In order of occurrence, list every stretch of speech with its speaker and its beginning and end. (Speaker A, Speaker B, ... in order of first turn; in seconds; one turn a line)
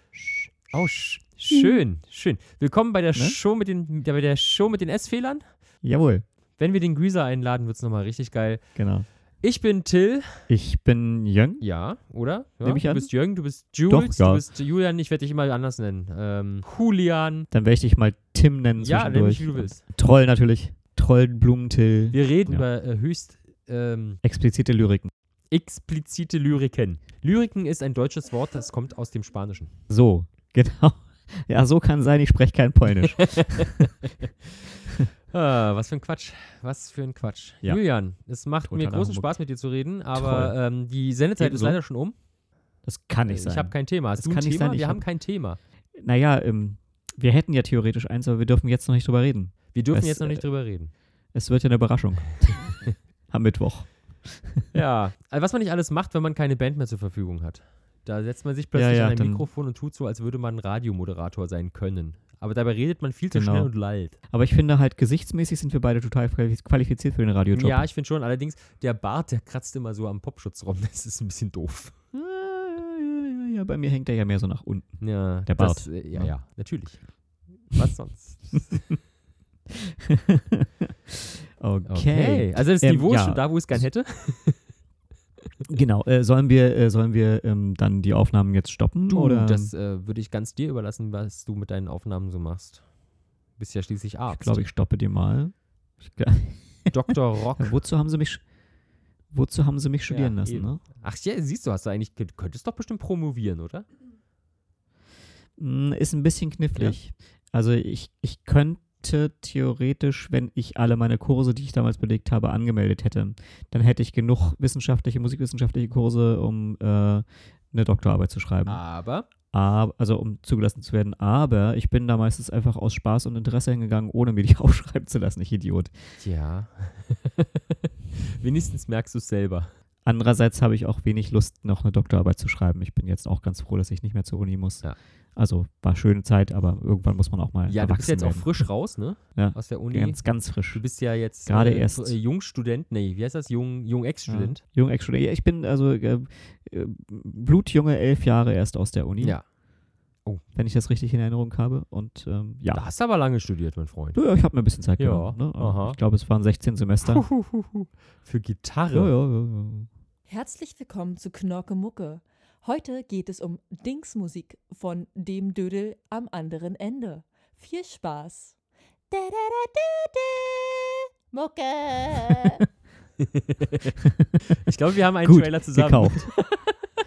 Speaker A: 0.7-5.5
Speaker B: 5.8-6.2
Speaker A: 6.6-8.6
Speaker B: 8.8-9.1
Speaker A: 9.4-10.4
Speaker B: 10.5-11.6
Speaker A: 11.6-17.5
Speaker B: 12.6-13.1
Speaker B: 13.9-14.4
Speaker B: 17.5-22.7
Speaker A: 18.8-19.8
Speaker A: 22.1-24.2
Speaker B: 24.2-25.1
Speaker A: 25.5-29.7
Speaker B: 29.9-33.7
Speaker A: 33.0-34.7
Speaker A: 35.3-42.1
Speaker B: 38.6-39.3
Speaker B: 40.1-40.5
Speaker B: 41.4-41.8
Speaker B: 42.9-45.0
Speaker A: 43.3-45.6
Speaker B: 46.0-50.5
Speaker A: 49.7-50.9
Speaker B: 51.3-54.7
Speaker A: 54.7-64.2
Speaker B: 58.7-59.5
Speaker B: 63.3-63.7
Speaker B: 64.3-67.9
Speaker A: 67.5-71.9
Speaker B: 72.1-76.3
Speaker A: 75.0-77.0
Speaker A: 77.6-78.9
Speaker B: 80.1-83.8
Speaker A: 81.8-84.7
Speaker B: 85.7-89.7
Speaker A: 89.1-92.8
Speaker A: 93.6-94.7
Speaker B: 94.3-96.9
Speaker A: 96.9-97.8
Speaker B: 97.6-98.4
Speaker B: 99.3-100.8
Speaker A: 100.1-103.8
Speaker B: 105.6-118.8
Speaker A: 118.7-119.2
Speaker B: 119.5-125.9
Speaker A: 126.2-129.7
Speaker B: 130.0-138.7
Speaker A: 137.7-144.6
Speaker B: 139.3-140.8
Speaker B: 141.4-142.2
Speaker B: 144.3-149.4
Speaker B: 150.5-152.9
Speaker A: 152.7-154.2
Speaker B: 154.1-157.3
Speaker A: 155.0-156.0
Speaker A: 157.0-159.1
Speaker B: 158.9-159.9
Speaker C: 160.3-168.6
Speaker C: 169.1-172.6
Speaker A: 173.2-176.8
Speaker B: 175.2-176.3